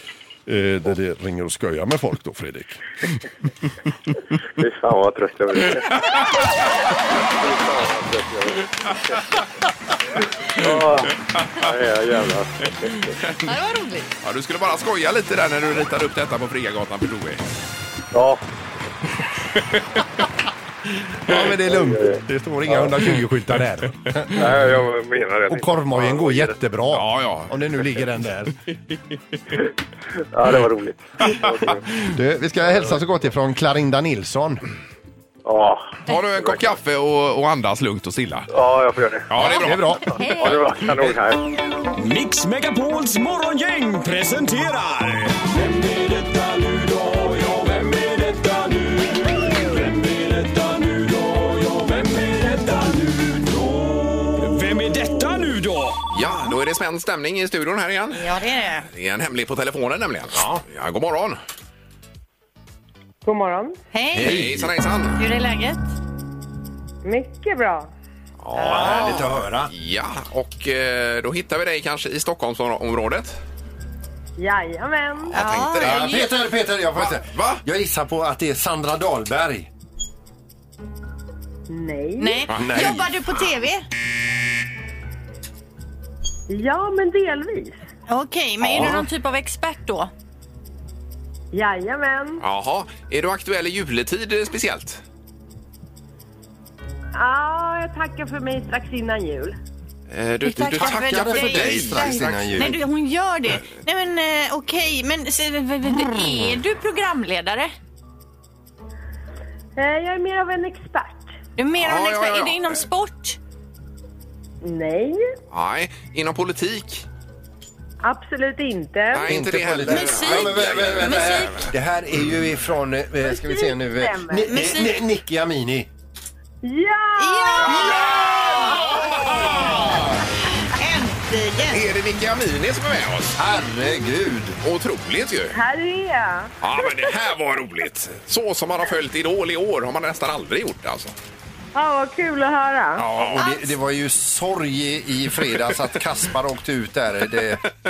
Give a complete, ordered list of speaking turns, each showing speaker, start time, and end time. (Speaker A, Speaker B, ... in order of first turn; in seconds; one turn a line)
Speaker A: 0.5-2.8
Speaker B: 4.6-5.9
Speaker B: 7.3-8.7
Speaker B: 10.6-12.9
Speaker C: 11.4-11.6
Speaker C: 13.0-13.4
Speaker D: 13.4-14.1
Speaker C: 14.2-17.4
Speaker B: 18.1-18.4
Speaker C: 19.7-20.0
Speaker A: 21.3-24.5
Speaker B: 21.6-22.1
Speaker B: 24.3-26.5
Speaker A: 25.5-28.5
Speaker C: 26.9-27.6
Speaker B: 30.3-31.8
Speaker C: 31.2-31.9
Speaker A: 32.0-34.6
Speaker B: 35.4-36.0
Speaker C: 36.1-38.5
Speaker B: 38.5-39.3
Speaker C: 39.3-40.0
Speaker A: 39.4-40.5
Speaker B: 40.4-41.5
Speaker E: 42.0-56.0
Speaker C: 56.1-61.4
Speaker D: 58.1-58.9
Speaker A: 60.3-60.6
Speaker F: 63.2-63.8
Speaker D: 63.9-64.4
Speaker A: 64.1-64.7
Speaker C: 64.2-65.2
Speaker D: 65.2-65.9
Speaker F: 67.0-67.9
Speaker C: 68.4-73.4
Speaker D: 68.6-69.2
Speaker A: 68.6-69.7
Speaker F: 74.4-75.6
Speaker C: 75.3-76.2
Speaker D: 75.3-76.3
Speaker A: 75.8-79.7
Speaker C: 76.9-77.6
Speaker F: 81.7-82.4
Speaker D: 82.2-83.9
Speaker C: 82.5-83.0
Speaker A: 82.6-83.1
Speaker F: 86.5-87.7
Speaker D: 88.1-90.1
Speaker A: 88.6-89.1
Speaker F: 91.5-92.4
Speaker C: 92.4-95.0
Speaker F: 97.2-99.6
Speaker C: 100.1-102.8
Speaker D: 100.5-107.7
Speaker A: 100.5-102.8
Speaker F: 109.8-111.3
Speaker D: 111.6-113.4
Speaker C: 111.8-112.7
Speaker F: 114.6-115.2
Speaker C: 115.5-117.0
Speaker F: 118.0-119.2
Speaker C: 119.1-121.7
Speaker A: 119.2-125.9
Speaker D: 119.9-121.7
Speaker F: 123.2-124.5
Speaker D: 124.5-125.0
Speaker F: 126.6-127.9
Speaker D: 127.2-129.9
Speaker C: 127.7-130.0
Speaker F: 128.6-129.6
Speaker D: 130.7-131.9
Speaker C: 131.7-133.4
Speaker A: 133.4-134.6
Speaker C: 134.6-135.6
Speaker F: 135.5-137.1
Speaker C: 136.6-141.1
Speaker F: 141.7-143.1
Speaker A: 143.0-147.6
Speaker C: 143.1-143.4